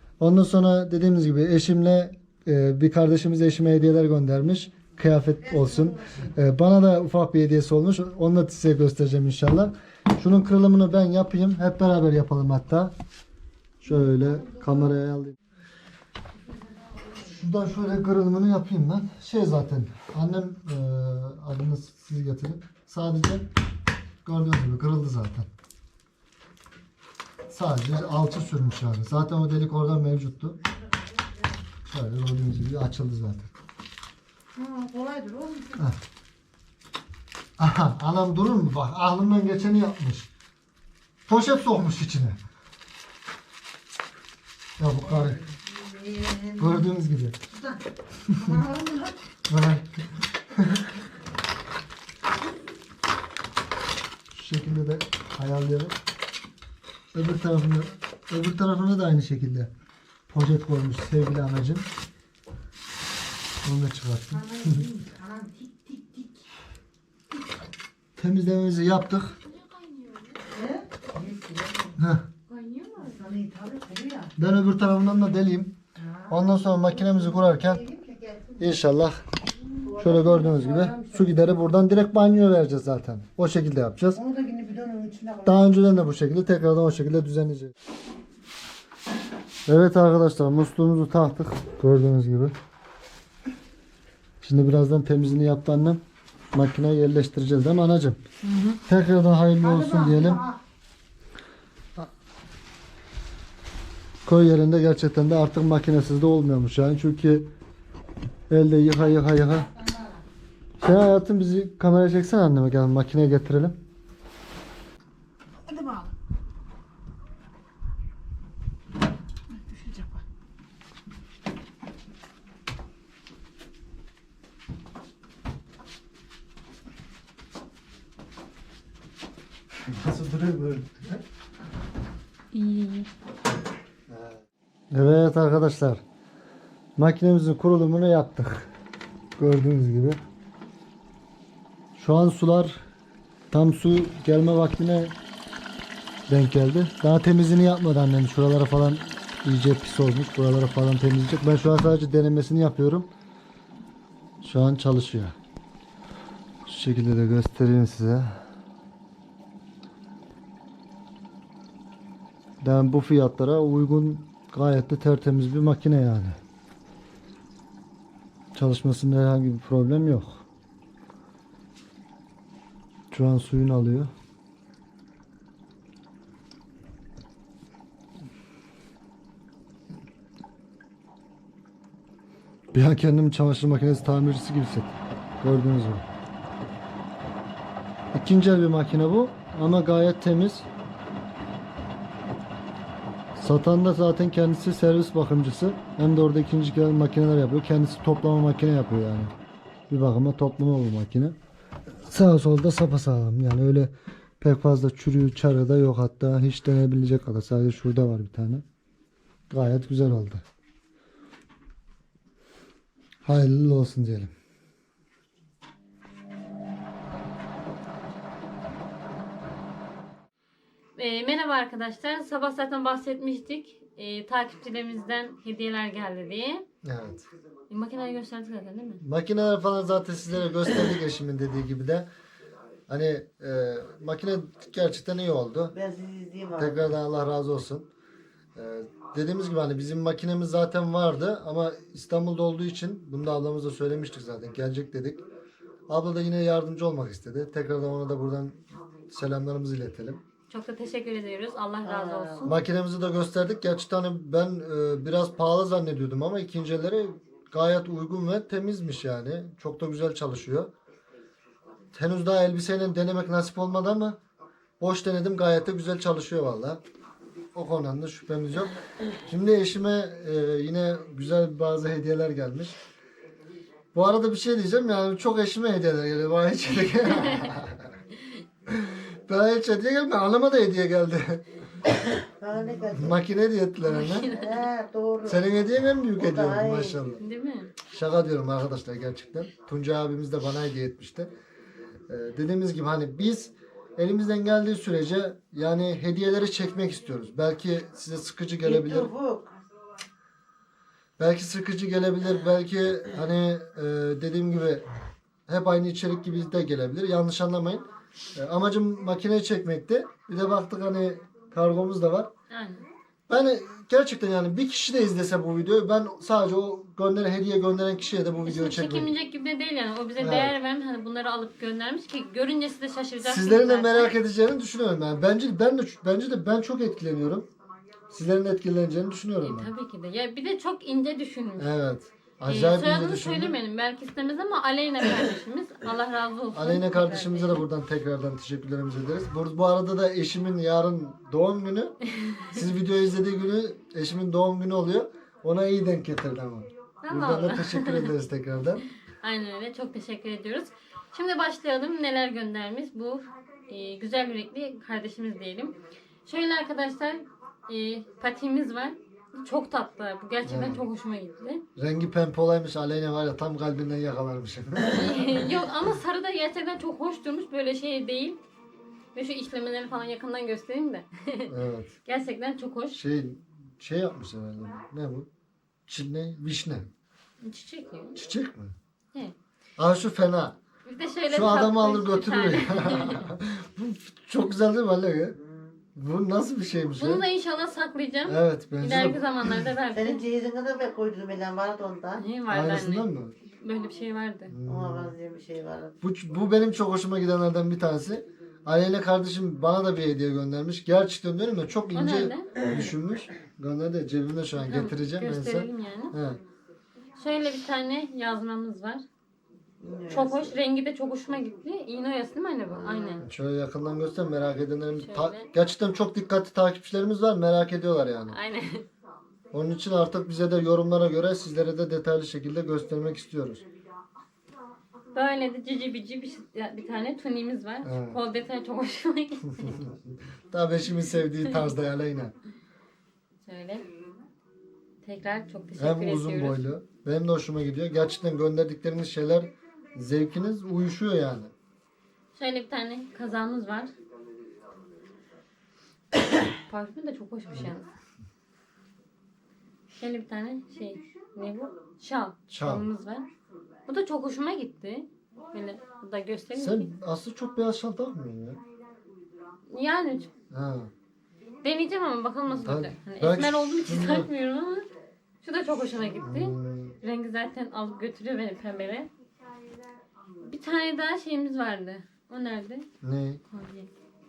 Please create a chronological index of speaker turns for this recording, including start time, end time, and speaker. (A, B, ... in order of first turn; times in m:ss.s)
0:00.2-0:12.9 A
0:05.4-0:06.3 B
0:13.8-0:15.4 A
0:13.9-0:14.7 B
0:17.2-0:23.5 A
0:24.2-0:25.5 A
0:27.5-0:30.6 A
0:31.9-0:33.5 A
0:34.5-0:35.8 B
0:37.6-0:40.3 A
0:41.3-0:42.4 A
0:44.8-0:45.4 A
0:45.2-0:46.9 B
0:46.6-0:47.4 A
0:47.5-0:47.8 B
0:48.3-0:49.2 B
0:49.5-0:50.8 A
0:54.3-0:55.9 A
0:57.1-0:59.7 A
1:00.3-1:01.9 A
1:03.6-1:04.8 A
1:04.3-1:06.4 B
1:08.2-1:09.4 A
1:10.4-1:12.0 B
1:12.0-1:12.2 A
1:12.5-1:13.2 C
1:13.0-1:14.3 B
1:14.4-1:15.8 A
1:16.0-1:18.8 B
1:16.3-1:17.8 A
1:18.6-1:19.2 A
1:19.7-1:21.5 B
1:20.0-1:24.2 A
1:24.1-1:25.6 B
1:25.4-1:27.7 A
1:29.7-1:32.5 A
1:34.4-1:36.0 A
1:36.5-1:38.2 A
1:38.9-1:40.4 A
1:39.6-1:40.6 B
1:44.3-1:47.5 A
1:48.5-1:49.7 A
1:49.8-1:50.1 B
1:50.8-1:53.8 A
1:55.6-1:56.1 B
1:59.5-2:00.2 B
2:09.9-2:11.2 A
2:12.5-2:13.1 C
2:14.1-2:14.4 A
2:14.9-2:16.0 A
2:17.0-2:18.7 A
2:19.4-2:20.2 A
2:22.0-2:22.8 A
2:23.5-2:25.1 A
2:26.3-2:33.1 A
2:34.4-2:35.4 A
2:36.7-2:38.4 A
2:42.6-2:46.4 A
2:48.5-2:50.4 A
2:53.1-2:54.1 A
3:02.7-3:06.0 A
3:08.1-3:10.7 A
3:13.4-3:19.3 A
3:19.9-3:21.3 A
3:22.0-3:28.6 A
3:29.5-3:30.4 A
3:33.2-3:34.3 A
3:41.0-3:46.6 C
3:46.8-3:47.3 A
3:47.7-3:49.0 C
3:49.0-3:52.1 A
3:52.9-3:55.7 A
3:55.7-3:56.9 B
3:56.6-3:57.9 A
3:58.5-4:05.2 A
4:05.9-4:10.2 A
4:10.5-4:12.6 C
4:11.8-4:12.5 B
4:12.4-4:20.7 A
4:21.9-4:24.2 A
4:24.8-4:26.8 A
4:27.5-4:28.8 A
4:29.2-4:32.8 A
4:33.9-4:37.9 A
4:38.7-4:41.4 A
4:42.2-4:43.2 B
4:42.9-4:44.3 A
4:43.9-4:44.6 C
4:44.3-4:45.5 B
4:45.2-4:47.2 A
4:46.1-4:47.0 B
4:47.2-4:47.7 C
4:47.9-4:51.3 A
4:52.1-4:59.1 A
4:58.6-4:59.5 B
5:01.2-5:04.9 A
5:05.5-5:12.3 A
5:12.5-5:12.8 C
5:13.3-5:19.1 A
5:18.4-5:24.1 C
5:20.2-5:20.5 A
5:23.2-5:27.5 A
5:28.1-5:29.7 A
5:29.4-5:31.7 C
5:31.6-5:33.5 A
5:32.4-5:37.6 C
5:36.5-5:42.0 A
5:42.5-5:48.8 A
5:47.0-5:48.1 C
5:49.2-5:55.7 C
5:56.2-6:01.6 C
6:00.4-6:00.8 A
6:01.8-6:05.4 A
6:04.9-6:08.4 C
6:09.1-6:11.5 C
6:11.5-6:11.9 A
6:12.0-6:13.0 C
6:12.9-6:15.3 A
6:15.9-6:16.9 A
6:17.4-6:18.2 C
6:18.1-6:18.7 A
6:19.8-6:20.6 A
6:20.9-6:23.3 C
6:21.3-6:25.4 A
6:25.4-6:25.7 B
6:25.9-6:27.2 A
6:27.0-6:30.2 C
6:28.2-6:29.6 A
6:29.9-6:32.2 B
6:32.2-6:34.5 C
6:32.5-6:33.4 A
6:34.5-6:35.1 A
6:34.6-6:36.0 B
6:36.0-6:46.4 A
6:41.9-6:42.6 C
6:44.6-6:46.1 C
6:47.2-6:49.0 C
6:49.8-6:50.5 B
6:50.1-6:53.2 C
6:52.7-6:53.2 B
6:53.2-6:58.4 A
6:55.0-6:55.5 C
6:58.3-6:58.9 C
6:59.5-7:03.6 A
7:05.1-7:09.8 C
7:07.8-7:08.2 A
7:09.6-7:12.3 A
7:13.4-7:13.9 C
7:15.0-7:16.6 C
7:15.8-7:21.5 A
7:22.3-7:23.9 C
7:26.7-7:27.9 C
7:30.0-7:33.3 C
7:32.5-7:32.8 A
7:33.9-7:36.9 C
7:36.6-7:38.6 A
7:39.7-7:40.3 C
7:40.5-7:40.9 A
7:41.6-7:44.9 C
7:42.5-7:44.3 A
7:45.4-7:49.1 C
7:46.2-7:47.0 A
7:50.4-7:52.9 C
7:53.0-7:53.4 A
7:53.5-7:53.9 C